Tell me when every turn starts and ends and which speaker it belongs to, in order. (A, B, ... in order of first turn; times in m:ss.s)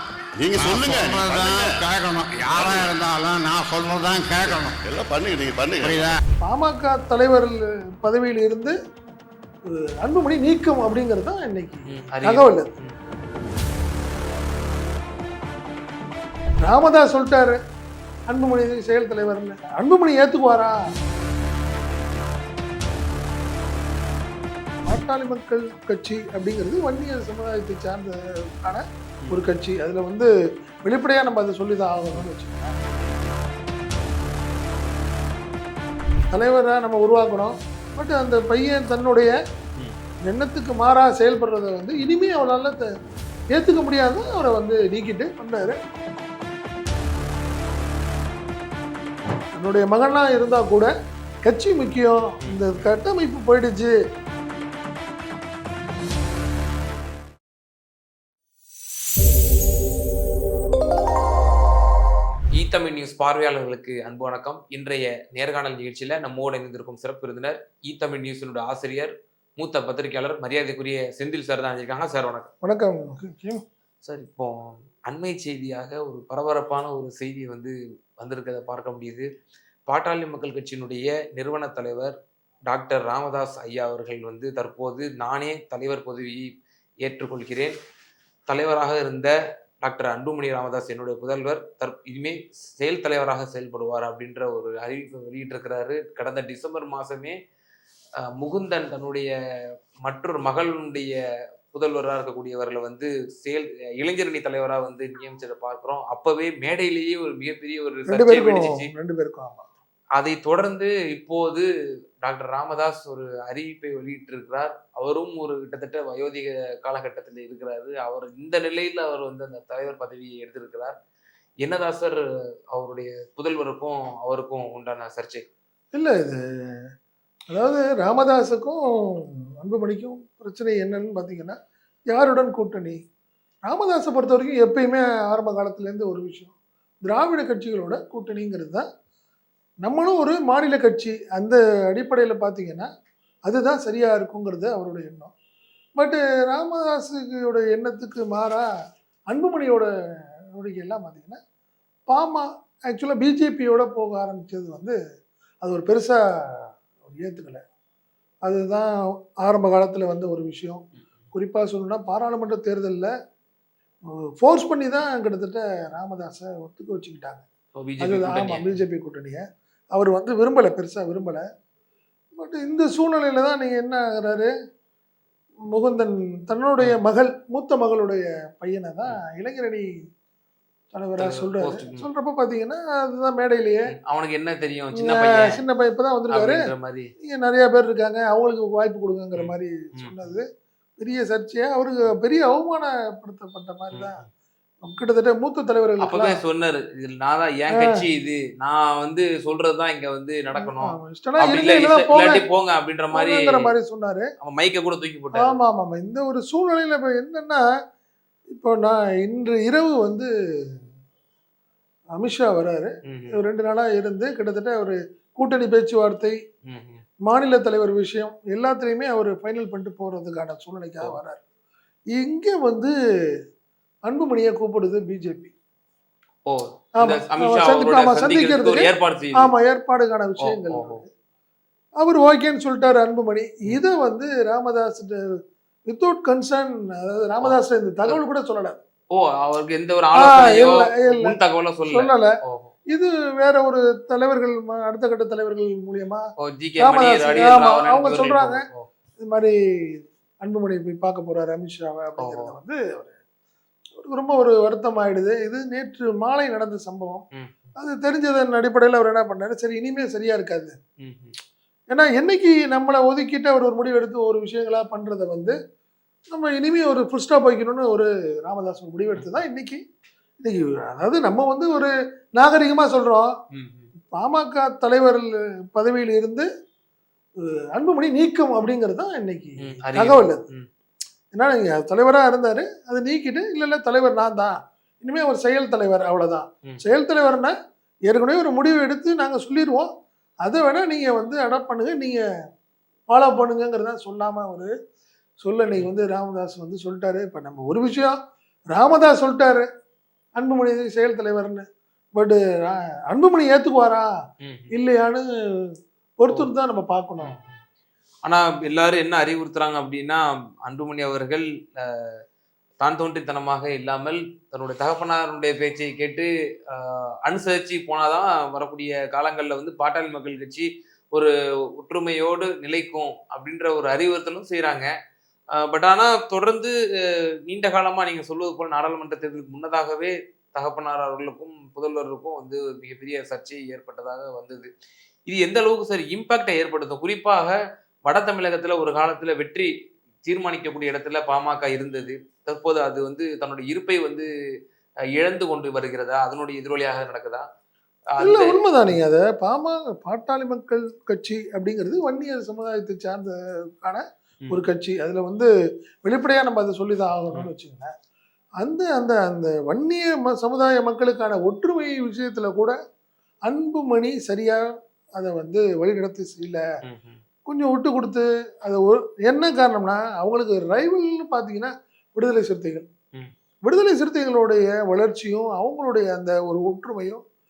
0:00.4-0:04.8 A
0:00.5-0:01.9 B
0:02.5-0:02.9 B
0:04.8-0:06.1 B
0:05.8-0:06.1 A
0:06.4-0:08.8 C
0:09.7-0:12.7 C
0:11.9-0:13.0 D
0:16.6-0:17.6 C
0:18.3-0:20.8 C
0:24.8-0:30.3 C
0:30.8-0:32.8 C
0:36.3-0:39.4 C
0:40.3-0:42.9 C
0:43.5-0:45.8 C
0:49.6-0:50.9 C
0:51.4-0:53.9 C
0:52.4-0:52.9 D
1:02.6-1:12.5 D
1:12.6-1:13.6 C
1:14.0-1:19.3 D
1:19.9-1:22.1 D
1:22.7-1:26.5 D
1:27.0-1:27.8 D
1:28.5-1:37.4 D
1:38.4-1:39.3 D
1:40.0-1:41.2 D
1:41.7-1:48.9 D
1:48.1-1:49.7 C
1:50.2-1:51.7 D
1:52.2-2:01.0 D
2:01.6-2:05.4 D
2:05.9-2:06.8 C
2:07.5-2:11.6 C
2:12.1-2:13.0 C
2:13.6-2:16.5 C
2:17.0-2:18.9 C
2:19.8-2:22.9 C
2:23.5-2:25.3 C
2:26.0-2:28.7 C
2:29.3-2:29.9 C
2:30.5-2:31.4 C
2:32.1-2:35.0 C
2:35.6-2:37.6 C
2:38.4-2:38.9 C
2:39.4-2:43.1 C
2:44.4-2:47.4 C
2:47.8-2:48.8 D
2:48.0-2:49.4 C
2:49.9-2:51.4 C
2:52.3-2:54.5 C
2:55.7-2:59.9 C
3:00.9-3:03.9 C
3:01.2-3:02.1 D
3:03.9-3:05.6 D
3:05.0-3:06.6 C
3:06.3-3:07.1 D
3:07.2-3:10.4 C
3:09.4-3:10.3 D
3:11.0-3:14.2 C
3:13.9-3:14.2 D
3:14.8-3:16.4 C
3:16.0-3:23.7 D
3:20.6-3:22.4 C
3:23.1-3:24.3 C
3:24.4-3:25.6 D
3:25.4-3:27.6 C
3:28.5-3:30.3 C
3:32.2-3:36.4 C
3:33.1-3:33.4 D
3:36.7-3:37.0 D
3:37.2-3:41.4 C
3:42.1-3:42.9 C
3:44.1-3:45.5 C
3:46.5-3:49.5 D
3:47.0-3:51.1 C
3:50.4-3:51.0 D
3:52.0-3:55.2 C
3:55.9-3:58.8 C
3:57.4-3:58.2 D
3:59.1-4:02.7 D
4:00.2-4:02.3 C
4:02.9-4:06.2 C
4:06.4-4:08.9 D
4:06.8-4:08.6 C
4:09.2-4:13.2 C
4:12.2-4:12.5 D
4:14.0-4:17.2 C
4:17.3-4:17.7 D
4:17.8-4:20.7 C
4:21.0-4:21.3 D
4:21.9-4:25.6 C
4:26.3-4:29.8 C
4:29.2-4:29.4 D
4:30.4-4:33.3 C
4:33.5-4:33.9 D
4:34.1-4:36.5 C
4:37.7-4:40.4 C
4:39.6-4:40.7 D
4:41.3-4:47.5 C
4:48.1-4:49.9 C
4:50.4-4:52.2 C
4:53.1-4:54.7 C
4:55.4-4:58.2 C
4:58.7-4:59.7 C
5:00.4-5:01.6 C
5:02.2-5:04.1 C
5:04.4-5:04.7 D
5:04.7-5:05.7 C
5:06.2-5:07.4 C
5:07.2-5:07.6 D
5:08.2-5:12.2 D
5:12.8-5:24.9 D
5:25.5-5:34.7 D
5:35.3-5:39.7 D
5:40.2-5:44.3 D
5:45.2-5:47.5 D
5:48.2-5:48.7 D
5:48.2-5:55.5 C
5:56.0-5:57.9 C
5:58.6-6:02.8 C
6:03.5-6:04.6 C
6:05.2-6:06.6 C
6:06.9-6:07.2 D
6:07.5-6:12.9 C
6:13.6-6:17.2 C